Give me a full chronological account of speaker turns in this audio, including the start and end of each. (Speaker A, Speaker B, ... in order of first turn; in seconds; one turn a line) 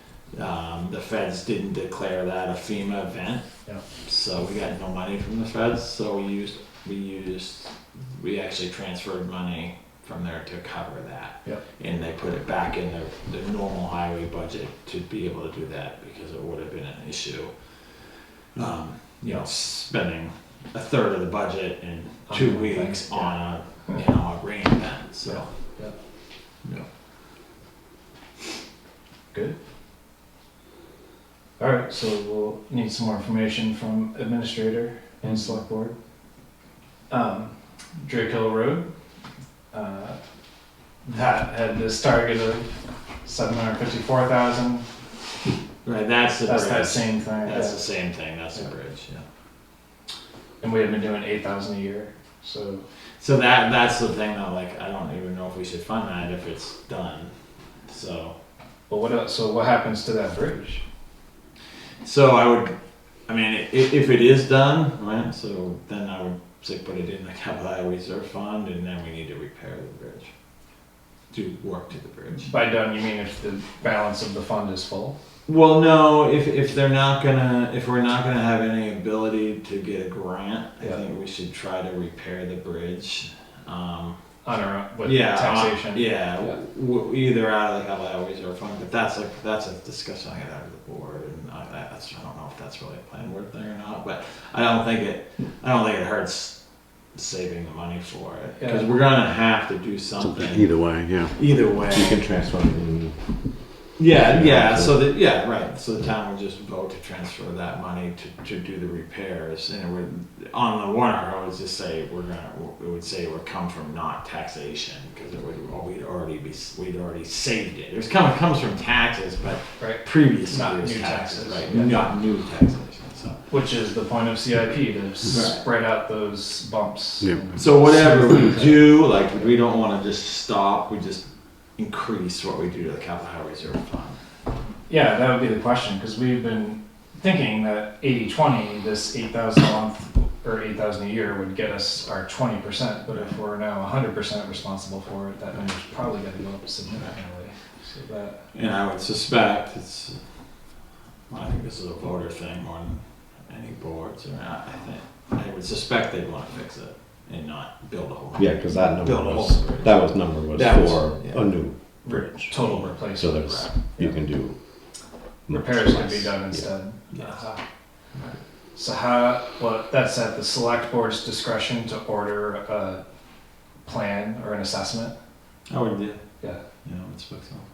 Speaker A: 0.3-25.5
Speaker B: 22.3-23.3
Speaker B: 25.2-25.9
Speaker B: 31.6-35.9
Speaker B: 37.1-38.9
Speaker B: 39.7-40.2
Speaker B: 41.0-44.9
Speaker A: 45.8-49.2
Speaker B: 46.5-47.8
Speaker B: 50.6-52.8
Speaker A: 53.2-58.4
Speaker B: 58.9-60.8
Speaker A: 62.0-62.8
Speaker A: 63.3-70.3
Speaker A: 71.3-72.5
Speaker B: 72.5-75.1
Speaker A: 75.5-84.2
Speaker B: 84.4-86.6
Speaker A: 85.0-102.2
Speaker B: 98.6-98.9
Speaker C: 100.2-105.0
Speaker A: 104.0-123.4
Speaker B: 119.8-122.1
Speaker B: 123.5-129.3
Speaker A: 125.3-125.6
Speaker A: 127.5-134.2
Speaker B: 134.9-148.4
Speaker A: 148.5-150.2
Speaker A: 151.3-161.5
Speaker C: 158.3-166.7
Speaker B: 162.0-164.2
Speaker A: 162.5-163.0
Speaker B: 165.5-167.6
Speaker B: 168.7-173.0
Speaker B: 173.8-175.1
Speaker A: 175.7-176.2
Speaker A: 176.8-177.7